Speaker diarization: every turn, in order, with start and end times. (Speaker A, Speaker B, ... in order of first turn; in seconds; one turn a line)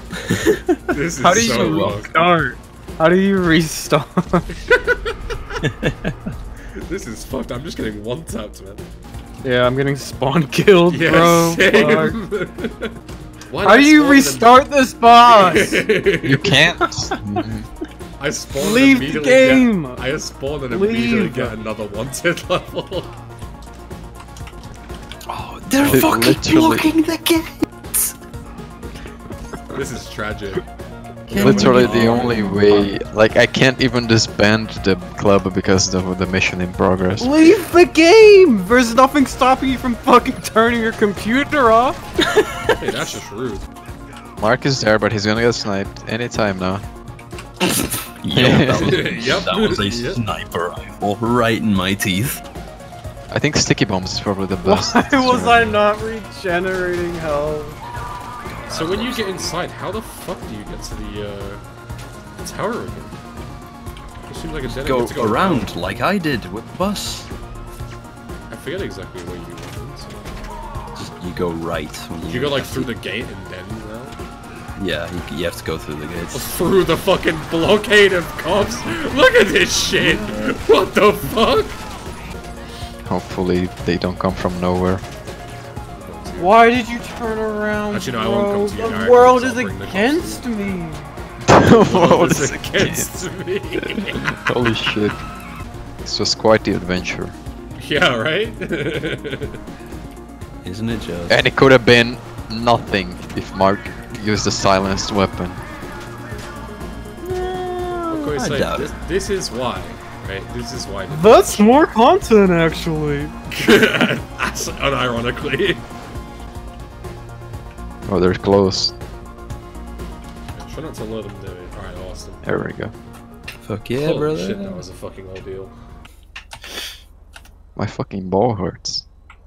Speaker A: 0.3-0.8
Speaker B: 0.9-2.1
Speaker C: 1.2-4.5
Speaker A: 1.3-2.0
Speaker B: 4.7-5.1
Speaker A: 5.6-6.3
Speaker B: 6.7-8.9
Speaker C: 9.4-12.2
Speaker B: 10.9-13.0
Speaker B: 13.5-14.6
Speaker C: 13.6-15.8
Speaker B: 15.3-16.6
Speaker D: 16.2-17.7
Speaker A: 16.8-17.5
Speaker B: 18.2-23.1
Speaker C: 18.6-20.1
Speaker C: 20.7-21.6
Speaker A: 25.3-27.6
Speaker D: 25.8-26.9
Speaker B: 29.7-30.6
Speaker B: 31.3-32.8
Speaker C: 31.3-32.9
Speaker D: 31.3-37.3
Speaker A: 31.6-32.3
Speaker C: 37.2-42.0
Speaker A: 42.3-42.8
Speaker B: 42.8-43.7
Speaker D: 44.4-46.8
Speaker A: 48.2-52.4
Speaker D: 48.3-49.3
Speaker B: 48.7-50.2
Speaker D: 53.3-55.8
Speaker C: 54.6-57.8
Speaker A: 58.5-59.5
Speaker B: 58.7-61.6
Speaker B: 62.4-63.2
Speaker B: 64.3-65.8
Speaker A: 64.6-67.3
Speaker B: 68.5-70.2
Speaker A: 71.0-72.9
Speaker B: 72.3-74.2
Speaker A: 74.8-76.5
Speaker B: 76.3-81.8
Speaker D: 83.0-85.0
Speaker B: 85.9-86.6
Speaker C: 86.4-91.1
Speaker B: 87.9-90.8
Speaker D: 91.4-93.1
Speaker B: 91.6-94.3
Speaker D: 93.8-95.2
Speaker D: 96.0-97.4
Speaker B: 97.8-99.6
Speaker A: 100.6-101.4
Speaker D: 101.3-105.7
Speaker A: 107.2-108.9
Speaker B: 108.1-111.7
Speaker C: 111.1-113.3
Speaker B: 113.5-115.9
Speaker D: 118.0-118.9
Speaker B: 120.6-122.5
Speaker D: 122.4-122.9
Speaker A: 123.6-124.9
Speaker B: 124.0-125.7
Speaker D: 127.8-129.1